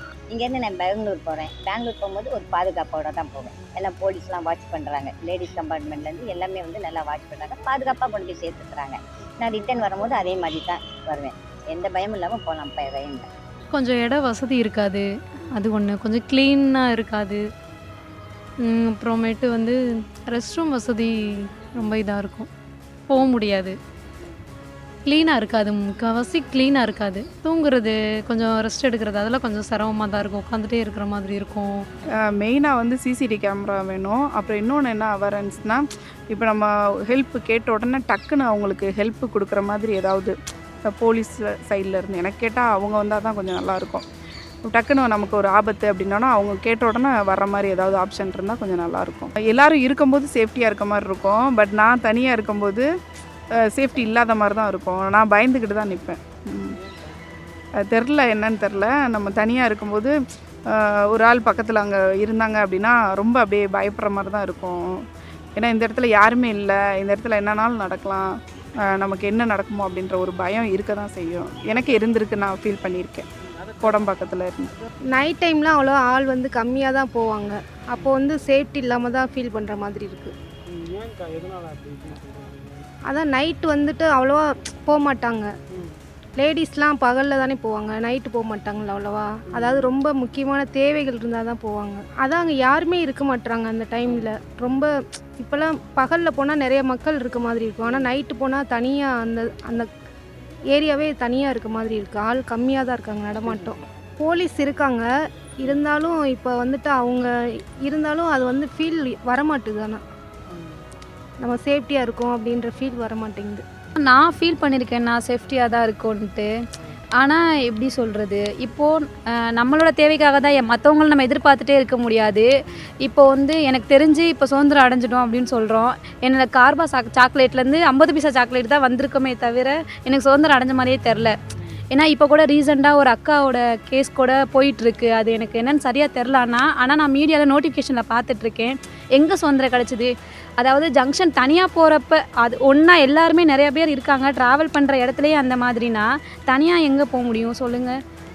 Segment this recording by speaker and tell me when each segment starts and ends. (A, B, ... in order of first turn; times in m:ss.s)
0:00.3-0:13.3 A
0:13.7-0:17.4 B
0:18.6-0:19.8 B
0:20.3-0:22.5 B
0:23.1-0:23.8 B
0:25.0-0:31.8 B
0:32.2-0:40.3 C
0:40.8-0:44.0 C
0:44.6-0:52.9 C
0:53.6-0:56.8 C
0:57.7-1:00.2 C
1:00.7-1:13.3 C
1:13.8-1:14.8 C
1:15.1-1:20.3 D
1:21.9-1:22.3 C
1:23.1-1:25.5 D
1:26.4-1:39.9 D
1:40.7-1:45.1 D
1:45.6-1:47.3 D
1:47.8-1:50.0 D
1:51.4-1:53.6 D
1:54.0-1:56.5 E
1:57.2-1:58.9 E
1:59.5-2:02.5 E
2:03.0-2:11.4 E
2:11.9-2:28.0 E